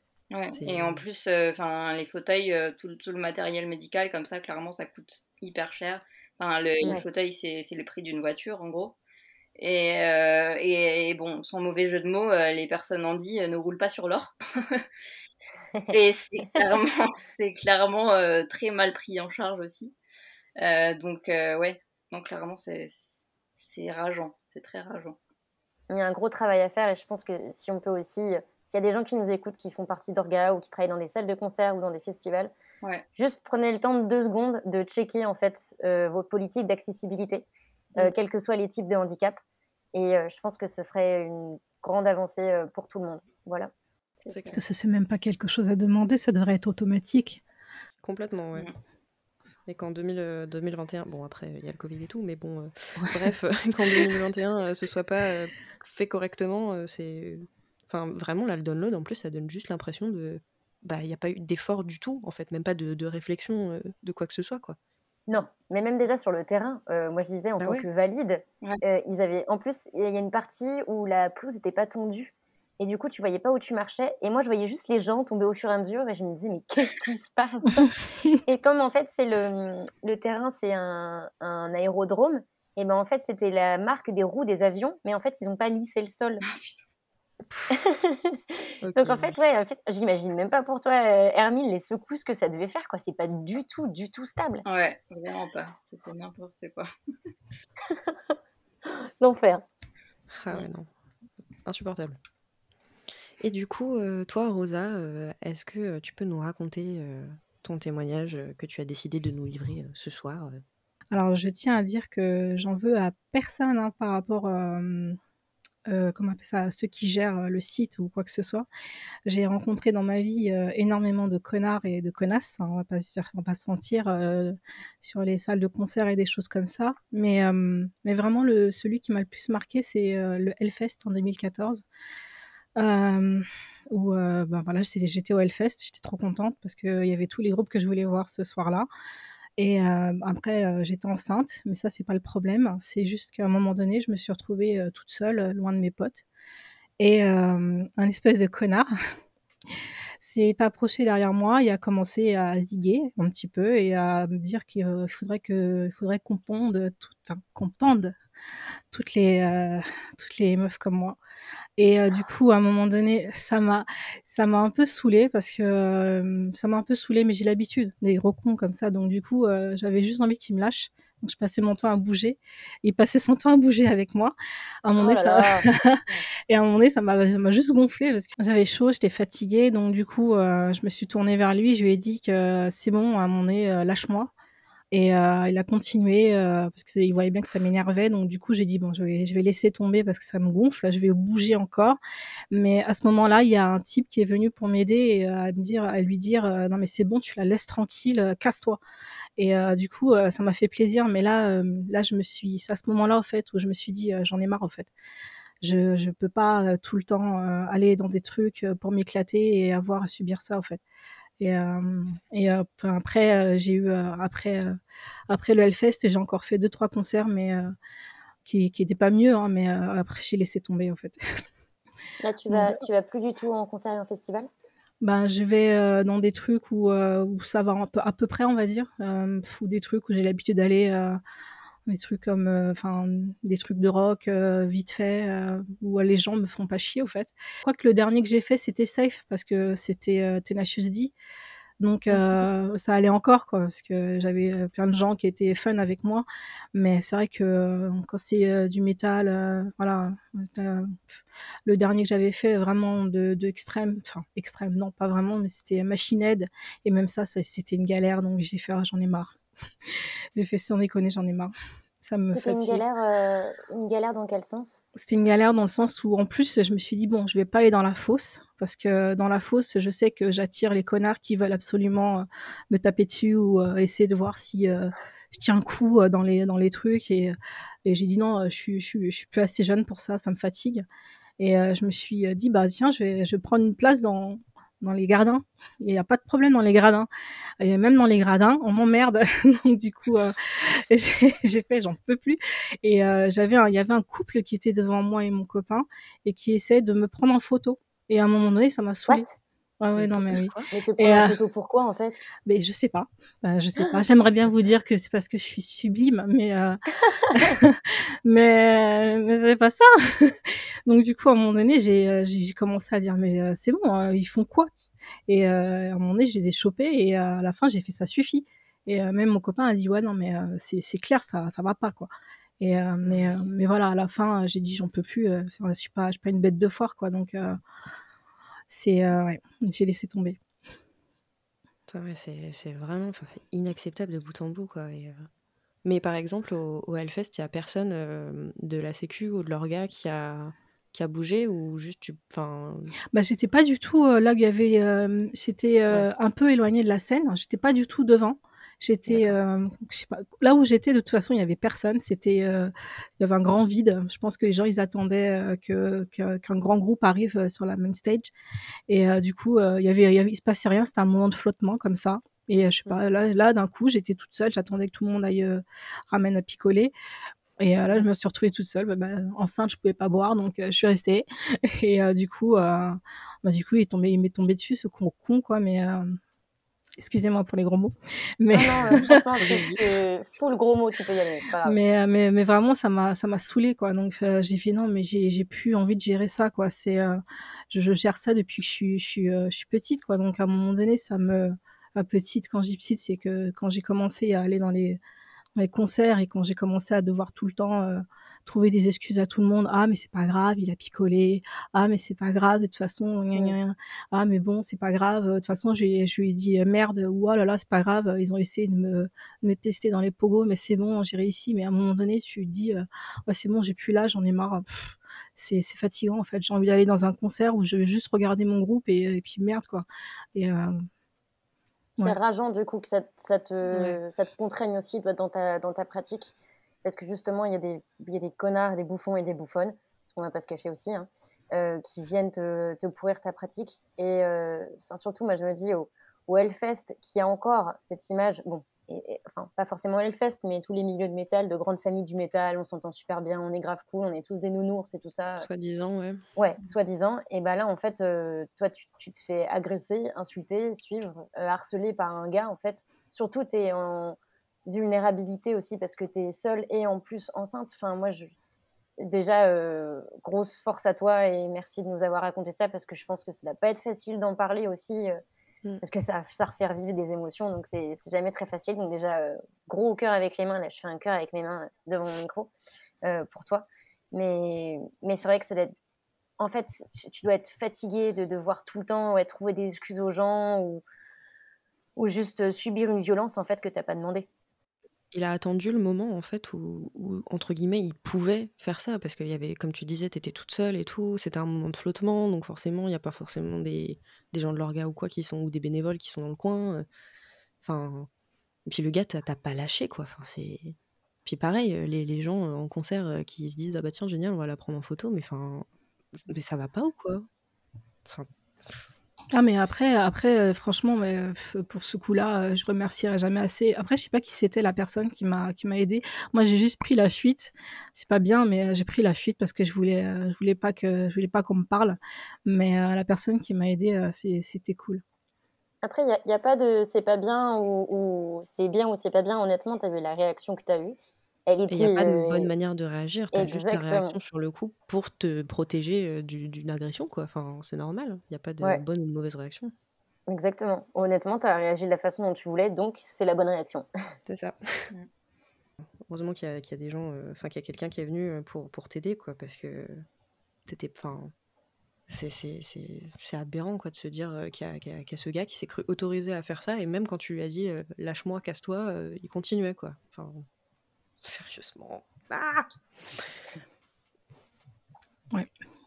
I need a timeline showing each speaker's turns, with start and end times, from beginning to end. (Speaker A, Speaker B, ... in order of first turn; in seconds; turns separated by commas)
Speaker A: 0.3-8.9, Speaker B: 0.5-1.0, Speaker A: 9.6-14.8, Speaker A: 15.9-19.9, Speaker A: 20.6-25.1, Speaker C: 25.9-32.5, Speaker C: 33.1-39.4, Speaker C: 39.9-43.7, Speaker A: 44.2-44.6, Speaker B: 44.3-44.6, Speaker D: 44.5-47.4, Speaker B: 48.0-48.7, Speaker B: 49.6-64.8, Speaker C: 65.3-86.4, Speaker B: 67.6-67.8, Speaker A: 86.5-86.8, Speaker C: 87.7-94.6, Speaker B: 88.8-89.4, Speaker A: 94.6-96.9, Speaker C: 97.9-98.2, Speaker C: 98.9-99.6, Speaker B: 100.3-100.9, Speaker B: 101.6-102.2, Speaker B: 103.4-110.6, Speaker D: 111.1-115.2, Speaker D: 115.9-118.7, Speaker D: 119.2-131.8, Speaker D: 132.8-138.9, Speaker D: 139.6-146.2, Speaker D: 147.0-148.9, Speaker D: 150.2-158.1, Speaker D: 158.9-161.2, Speaker D: 161.8-184.3, Speaker C: 175.0-176.2, Speaker D: 184.9-192.0, Speaker D: 192.5-198.8, Speaker D: 199.4-204.9, Speaker D: 205.6-210.8, Speaker D: 211.4-214.8, Speaker D: 215.3-217.7, Speaker D: 218.4-221.2, Speaker C: 222.2-224.5, Speaker D: 222.5-222.8, Speaker D: 225.0-231.2, Speaker D: 231.8-241.1, Speaker D: 241.8-259.4, Speaker B: 242.1-242.4, Speaker D: 259.9-262.8, Speaker C: 262.3-264.8, Speaker D: 265.0-280.8, Speaker D: 281.4-287.1, Speaker D: 287.6-299.2, Speaker C: 299.1-299.3, Speaker D: 299.8-301.4, Speaker B: 299.9-300.7, Speaker C: 300.7-302.2, Speaker D: 302.4-314.7, Speaker C: 307.1-307.5, Speaker D: 315.3-327.6, Speaker B: 323.0-323.4, Speaker D: 328.7-330.4, Speaker B: 331.9-335.3, Speaker B: 335.8-342.9, Speaker D: 343.1-358.3, Speaker B: 349.1-349.4, Speaker D: 358.9-366.9, Speaker D: 367.6-376.2, Speaker D: 377.0-379.2, Speaker C: 378.5-381.8, Speaker B: 378.7-379.8, Speaker D: 381.6-395.0, Speaker D: 395.6-420.8, Speaker C: 422.0-426.3, Speaker B: 423.7-424.0, Speaker C: 426.8-445.5, Speaker B: 445.4-446.2, Speaker C: 446.4-458.3, Speaker C: 459.0-465.2, Speaker C: 465.8-472.5, Speaker C: 473.0-475.7, Speaker C: 476.4-480.8, Speaker C: 481.9-484.3, Speaker B: 485.1-496.9, Speaker B: 497.6-498.1, Speaker B: 498.7-505.7, Speaker B: 506.3-507.2, Speaker B: 508.1-508.8, Speaker D: 509.3-525.0, Speaker C: 525.8-532.5, Speaker B: 531.7-539.7, Speaker C: 533.3-534.2, Speaker C: 540.3-543.9, Speaker B: 544.3-544.9, Speaker B: 546.0-550.0, Speaker B: 550.7-551.3, Speaker B: 552.1-560.4, Speaker B: 561.2-563.3